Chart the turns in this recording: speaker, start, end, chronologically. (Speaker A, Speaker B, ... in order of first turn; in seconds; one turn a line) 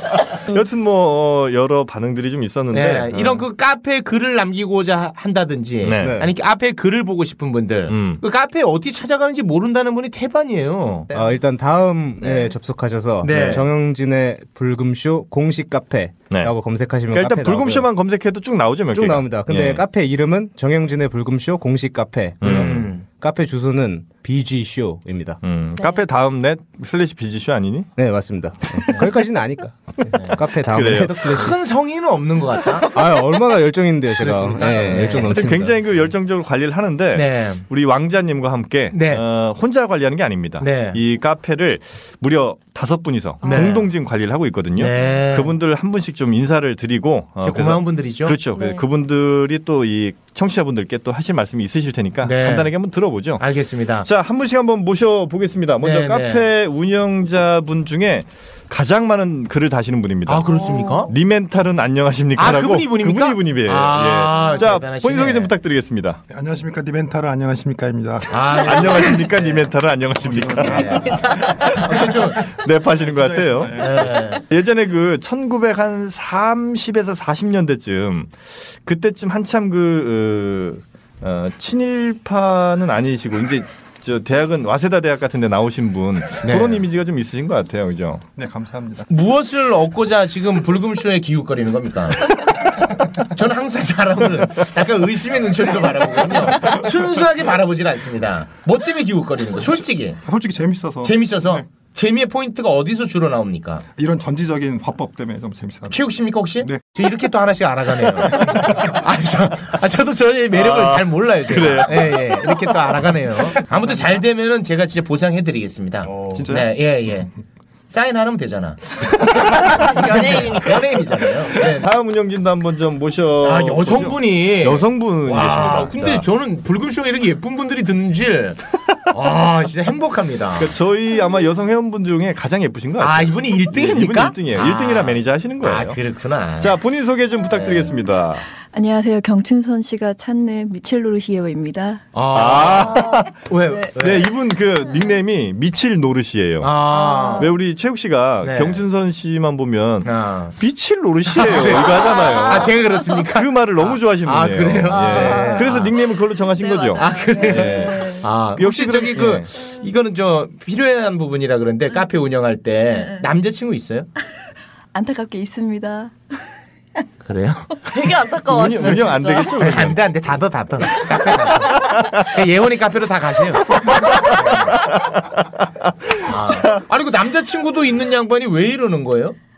Speaker A: 0.5-3.5
Speaker B: 2.7-11.1
Speaker A: 5.8-6.2
Speaker C: 6.0-6.3
Speaker A: 7.9-8.2
Speaker D: 11.1-11.3
Speaker C: 11.1-17.9
Speaker D: 12.2-12.5
Speaker B: 13.2-13.7
Speaker A: 13.3-13.6
Speaker A: 17.1-19.8
Speaker C: 18.9-25.4
Speaker A: 22.4-22.9
Speaker B: 22.4-23.0
Speaker A: 25.4-27.9
Speaker C: 28.0-31.6
Speaker A: 30.7-31.2
Speaker B: 31.1-32.9
Speaker C: 32.8-35.8
Speaker B: 34.2-35.5
Speaker A: 35.1-53.4
Speaker B: 37.1-37.7
Speaker B: 38.9-39.2
Speaker B: 40.6-41.0
Speaker D: 43.4-43.8
Speaker B: 43.4-43.9
Speaker B: 44.8-45.5
Speaker B: 47.4-48.4
Speaker D: 48.5-48.9
Speaker B: 52.2-52.7
Speaker B: 53.4-54.1
Speaker A: 54.0-60.5
Speaker B: 55.8-56.5
Speaker B: 60.3-61.1
Speaker D: 60.5-61.1
Speaker A: 61.1-66.2
Speaker B: 62.4-65.5
Speaker E: 66.3-69.1
Speaker B: 68.3-69.7
Speaker A: 68.6-88.2
Speaker E: 70.2-72.2
Speaker B: 70.6-72.5
Speaker E: 72.9-74.2
Speaker B: 73.8-74.4
Speaker B: 86.4-86.8
Speaker E: 88.4-89.1
Speaker B: 89.1-100.2
Speaker E: 100.2-101.7
Speaker B: 101.0-103.8
Speaker E: 104.0-106.0
Speaker B: 105.9-117.3
Speaker A: 110.5-112.6
Speaker E: 116.2-116.8
Speaker B: 117.9-121.9
Speaker D: 119.7-121.0
Speaker A: 121.8-126.3
Speaker B: 123.4-130.7
Speaker A: 130.6-136.0
Speaker B: 133.0-136.8
Speaker A: 136.6-138.5
Speaker B: 137.5-137.9
Speaker F: 138.7-142.1
Speaker B: 142.1-144.3
Speaker A: 142.3-146.8
Speaker B: 146.6-147.5
Speaker D: 147.0-147.5
Speaker A: 147.4-159.5
Speaker B: 148.4-148.8
Speaker B: 150.0-150.6
Speaker B: 151.3-155.9
Speaker D: 152.2-152.7
Speaker D: 154.9-155.9
Speaker D: 156.6-158.0
Speaker F: 157.0-158.2
Speaker B: 157.0-164.1
Speaker F: 164.9-166.1
Speaker B: 167.2-167.7
Speaker D: 167.9-169.7
Speaker A: 168.5-170.1
Speaker B: 169.6-174.8
Speaker A: 171.8-172.1
Speaker B: 176.2-179.4